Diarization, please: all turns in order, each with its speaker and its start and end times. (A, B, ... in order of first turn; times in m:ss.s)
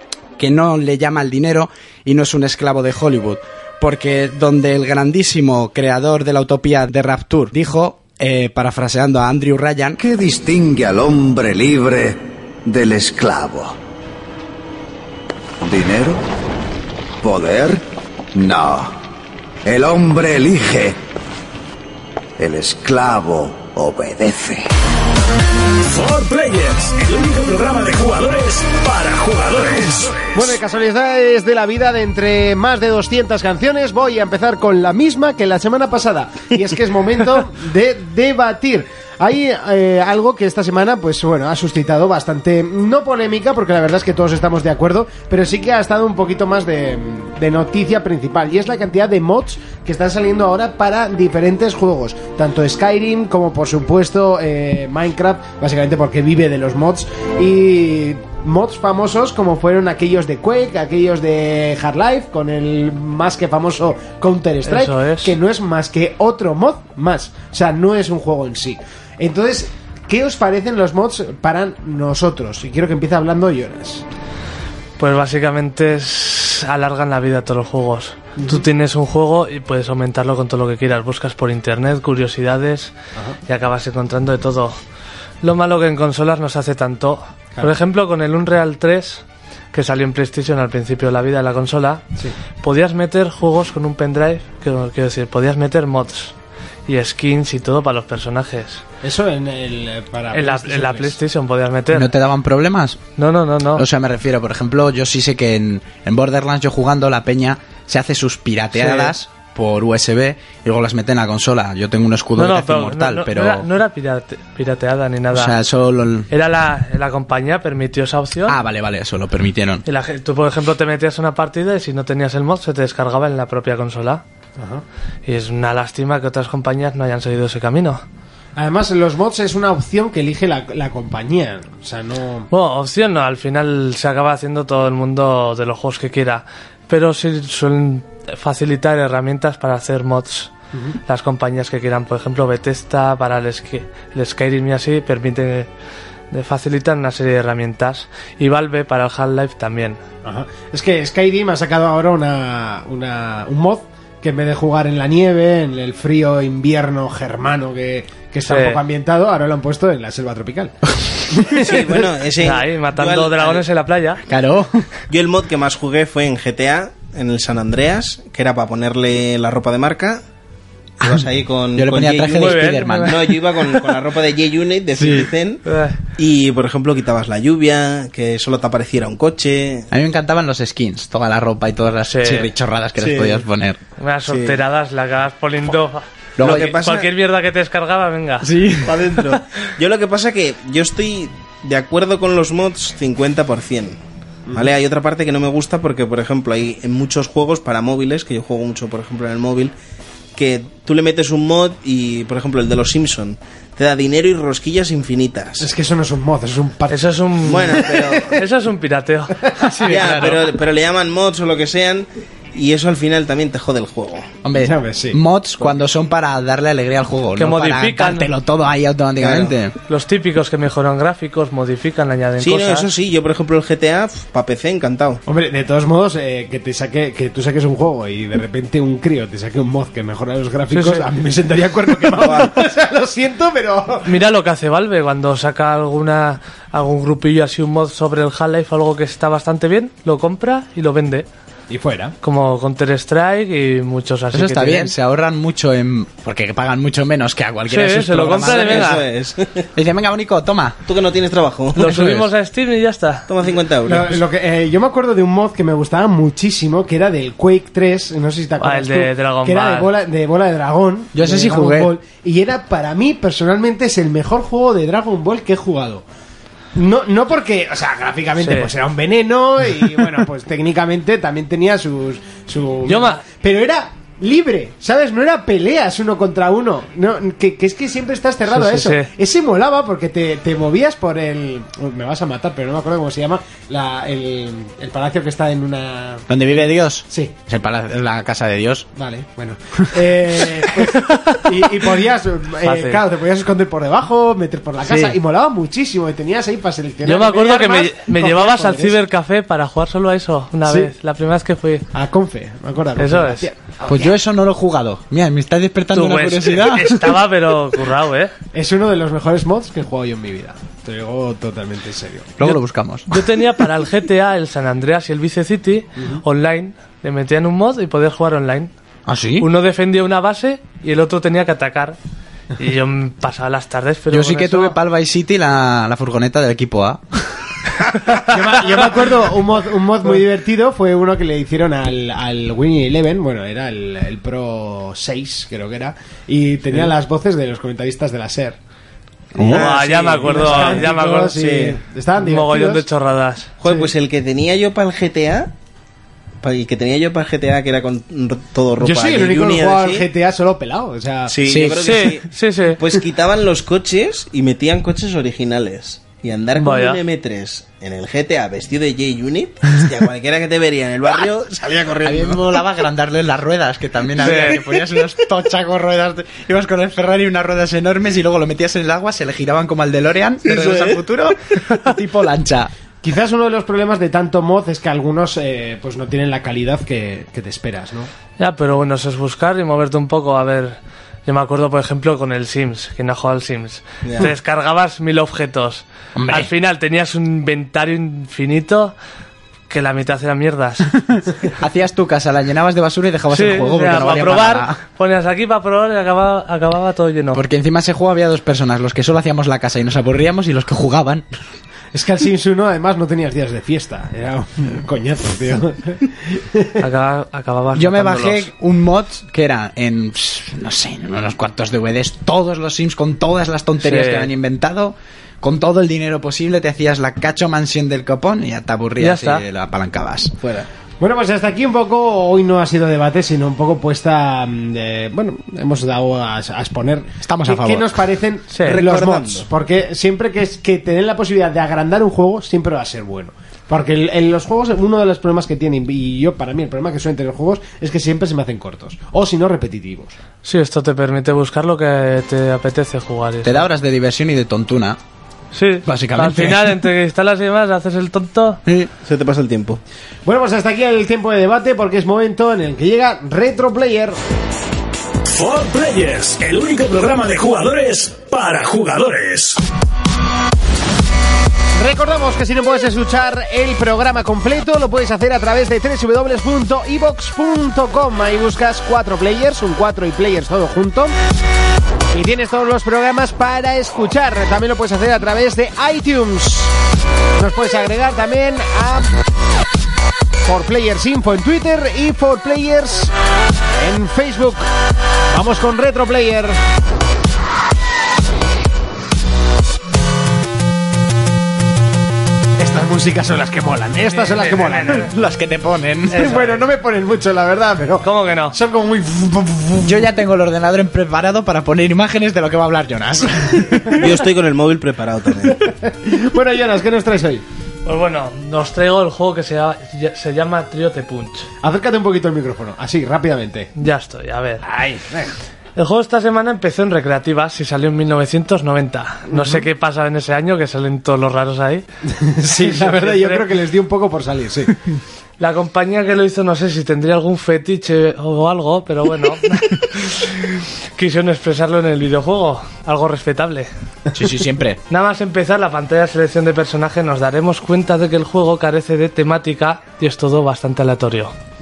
0:00.4-0:10.0 A
0:10.0-0:13.8 B
0:15.6-0:16.2 B
0:17.2-0:17.8 B
0:18.3-0:18.9 B
0:19.6-0:21.0 B
0:22.4-0:24.7 B
0:25.8-0:30.5 C
0:30.3-1:14.0 D
1:04.6-1:05.4 E
1:15.0-1:22.9 E
1:18.4-1:18.6 D
1:23.5-1:24.8 E
1:25.4-1:32.0 E
1:32.6-1:36.3 E
1:36.9-1:38.8 E
1:39.0-1:41.2 D
1:40.3-1:42.1 E
1:41.9-1:43.0 A
1:43.2-1:43.8 E
1:43.7-1:53.7 A
1:48.7-1:49.1 E
1:52.4-1:55.6 E
1:55.3-1:56.3 A
1:56.3-1:58.6 E
1:58.5-1:59.8 A
1:59.8-2:04.2 E
2:04.6-2:04.8 D
2:05.2-2:08.0 E
2:08.6-2:12.5 D
2:12.5-2:20.5 E
2:21.0-2:25.7 E
2:26.3-2:30.0 E
2:30.2-2:40.8 D
2:38.5-2:38.8 E
2:41.3-2:42.1 D
2:41.5-2:43.6 F
2:42.4-2:44.2 E
2:44.3-2:44.9 A
2:45.1-2:50.2 F
2:51.0-2:55.6 F
2:51.0-2:53.4 A
2:52.3-2:53.2 E
2:55.0-2:55.3 A
2:55.6-2:56.0 E
2:56.2-2:59.9 F
2:59.9-3:03.8 A
3:02.0-3:02.5 E
3:03.0-3:03.4 F
3:04.0-3:08.5 E
3:04.3-3:04.5 F
3:06.4-3:06.7 A
3:06.4-3:07.1 F
3:08.4-3:09.1 A
3:08.8-3:14.0 F
3:14.5-3:19.7 F
3:20.4-3:25.7 F
3:25.6-3:28.4 D
3:26.9-3:30.4 E
3:27.4-3:28.4 F
3:29.8-3:30.4 A
3:29.8-3:34.3 F
3:34.4-3:39.8 A
3:34.5-3:35.2 D
3:37.4-3:38.3 E
3:39.2-3:39.5 F
3:39.9-3:42.9 E
3:42.4-3:45.2 F
3:45.3-3:54.2 D
3:50.7-3:51.0 E
3:52.2-3:52.5 F
3:54.0-4:01.2 E
4:01.7-4:02.1 D
4:02.2-4:04.9 E
4:04.3-4:08.9 A
4:07.7-4:09.0 E
4:08.4-4:09.7 F
4:09.7-4:10.8 A
4:10.8-4:11.8 F
4:11.8-4:12.3 A
4:11.8-4:13.3 E
4:13.3-4:14.2 F
4:13.8-4:26.0 D
4:18.6-4:19.9 E
4:21.1-4:21.9 A
4:26.7-4:47.3 D
4:28.4-4:28.7 E
4:32.8-4:33.2 E
4:38.5-4:39.1 E
4:46.3-4:48.9 A
4:49.0-4:59.0 D
4:52.6-4:53.0 E
4:54.9-4:55.1 E
4:57.0-5:01.9 E
5:00.6-5:00.9 D
5:01.9-5:04.1 D
5:03.0-5:03.5 E
5:03.9-5:07.2 A
5:05.9-5:08.3 E
5:08.5-5:12.3 D
5:12.4-5:13.1 A
5:12.4-5:18.7 E
5:19.0-5:19.5 A
5:19.4-5:22.0 E
5:22.6-5:24.8 E
5:24.1-5:27.5 A
5:28.2-5:38.6 D
5:39.4-5:39.6 A
5:39.4-5:42.8 D
5:39.5-5:41.8 F
5:39.5-5:41.4 E
5:42.2-5:43.5 E
5:43.6-5:45.5 F
5:43.6-5:43.9 D
5:46.4-5:50.1 F
5:48.8-5:51.3 D
5:51.3-6:02.6 F
5:51.4-5:52.0 A
5:51.8-5:52.8 E
5:56.6-5:57.0 E
6:02.0-6:12.7 A
6:04.2-6:04.6 E
6:10.4-6:11.0 F
6:13.0-6:18.1 D
6:18.4-6:28.9 E
6:24.0-6:24.3 F
6:26.2-6:26.5 A
6:29.7-6:30.9 E
6:31.1-6:34.8 A
6:33.3-6:37.4 E
6:37.3-6:41.2 A
6:41.9-6:46.8 D
6:46.8-6:48.5 E
6:47.7-7:00.4 A
6:53.8-6:54.3 E
6:59.0-6:59.4 E
7:00.4-7:00.7 F
7:01.0-7:20.1 D
7:07.2-7:08.0 A
7:08.5-7:08.8 E
7:08.6-7:09.5 F
7:20.4-7:23.6 E
7:23.4-7:25.0 A
7:25.5-7:28.6 E
7:25.8-7:26.8 A
7:28.6-7:28.9 A
7:29.0-7:29.8 F
7:30.2-7:34.2 D
7:35.3-7:39.6 C
7:41.8-7:51.1 D
7:52.1-7:56.7 D
7:57.4-7:59.2 D
8:00.4-8:03.1 D
8:03.8-8:04.7 D
8:05.3-8:06.6 D
8:12.6-8:15.1 D
8:14.1-8:15.1 E
8:14.8-8:16.3 A
8:16.1-8:16.6 E
8:16.1-8:20.0 D
8:18.0-8:18.6 E
8:19.8-8:24.1 A
8:23.9-8:25.6 F
8:25.5-8:27.4 D
8:27.8-8:31.5 E
8:31.6-8:33.7 D
8:33.8-8:34.6 E
8:34.6-8:35.3 D
8:35.8-8:41.8 E
8:39.3-8:39.6 D
8:42.1-8:44.8 D
8:42.4-8:43.5 E
8:45.4-8:53.7 E
8:54.1-8:54.8 A
8:54.9-9:01.3 E